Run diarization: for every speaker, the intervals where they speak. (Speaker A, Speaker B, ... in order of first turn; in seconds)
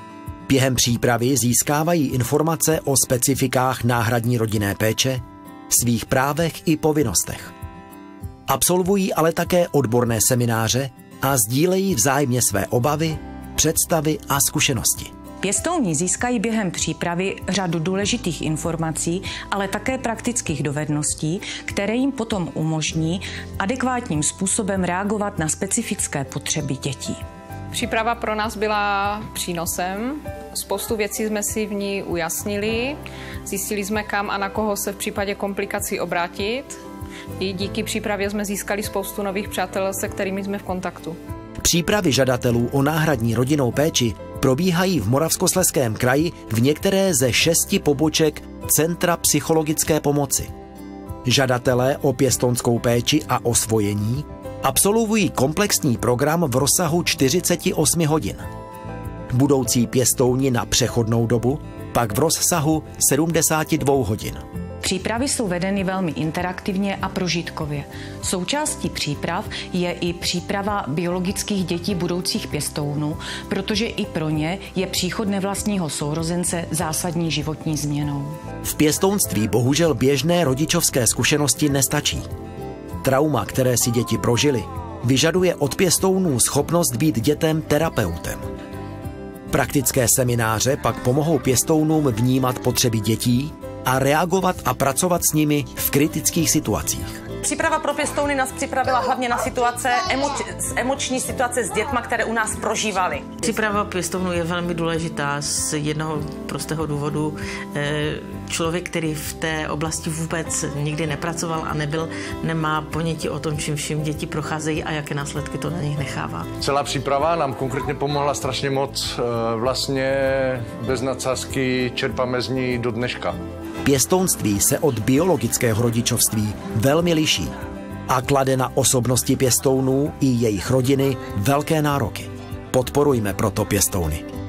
Speaker A: 0.5-7.5, 8.5-15.1, 41.6-50.5, 51.2-58.5, 59.3-64.4, 78.6-82.3, 83.0-88.4, 89.5-97.2, 123.8-127.5, 128.1-134.3
Speaker B: 15.4-27.2, 64.8-78.4
Speaker C: 27.7-36.8, 37.4-41.2
Speaker D: 97.4-103.3
Speaker E: 103.4-116.5
Speaker F: 116.6-123.4